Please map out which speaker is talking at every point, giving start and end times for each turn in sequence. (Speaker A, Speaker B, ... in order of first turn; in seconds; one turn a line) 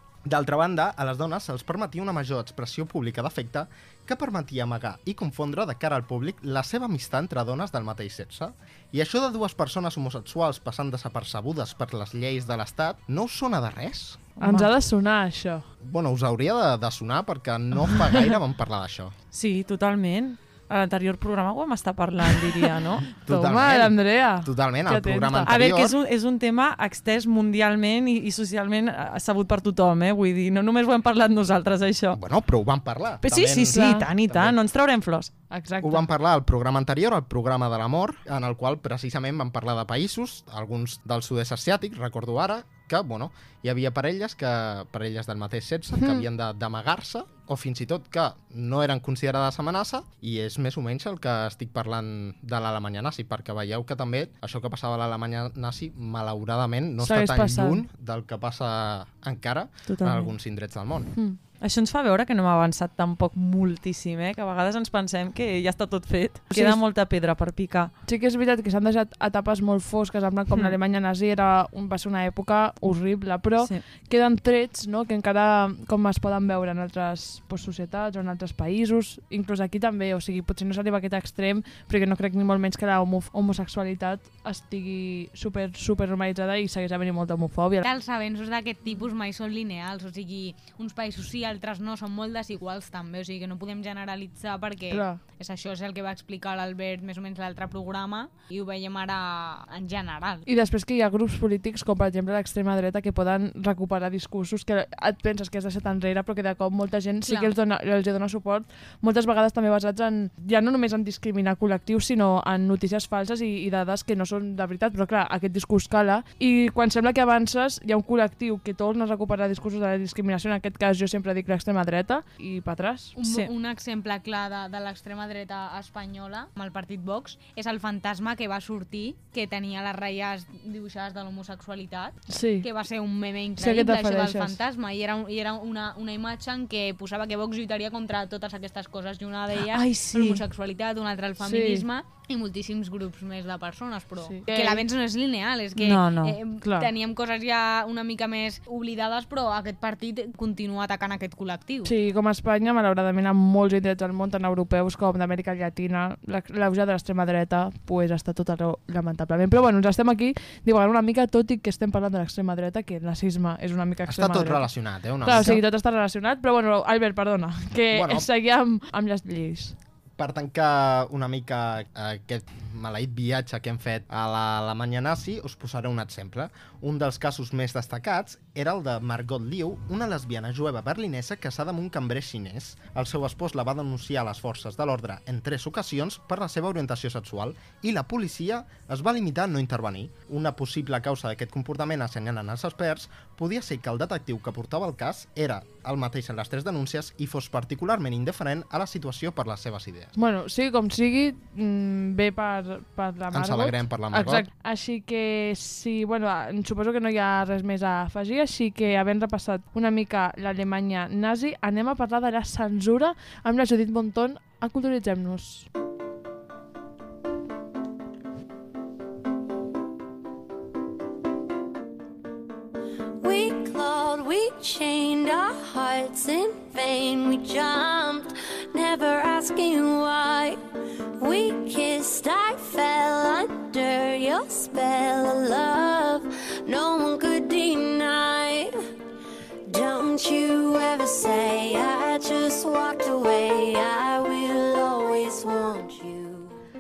Speaker A: 0.3-14.4
Speaker B: 14.4-15.7
Speaker C: 14.4-14.7
Speaker A: 15.8-19.1
Speaker C: 19.3-23.1
Speaker A: 23.1-26.0
Speaker B: 23.2-25.5
Speaker C: 25.5-32.2
Speaker A: 32.1-34.6
Speaker C: 33.2-35.3
Speaker B: 33.7-34.1
Speaker B: 35.5-36.1
Speaker A: 35.8-61.1
Speaker B: 46.0-46.2
Speaker B: 57.0-57.8
Speaker C: 59.9-60.3
Speaker C: 61.6-67.9
Speaker B: 66.5-66.8
Speaker B: 68.0-87.8
Speaker D: 87.8-100.5
Speaker B: 94.9-95.2
Speaker B: 100.5-123.2
Speaker D: 107.3-107.5
Speaker D: 123.2-151.9
Speaker B: 132.3-132.7
Speaker B: 133.6-134.6
Speaker B: 139.8-140.2
Speaker C: 140.0-140.4
Speaker B: 141.4-141.8
Speaker B: 144.3-144.9
Speaker C: 145.8-146.4
Speaker B: 146.6-146.9
Speaker B: 151.8-164.7
Speaker A: 164.1-165.6
Speaker B: 165.2-169.8
Speaker A: 167.9-168.3
Speaker A: 170.2-200.1
Speaker B: 200.2-215.7
Speaker A: 203.3-204.5
Speaker E: 223.2-230.6
Speaker E: 231.2-238.7
Speaker E: 239.7-246.6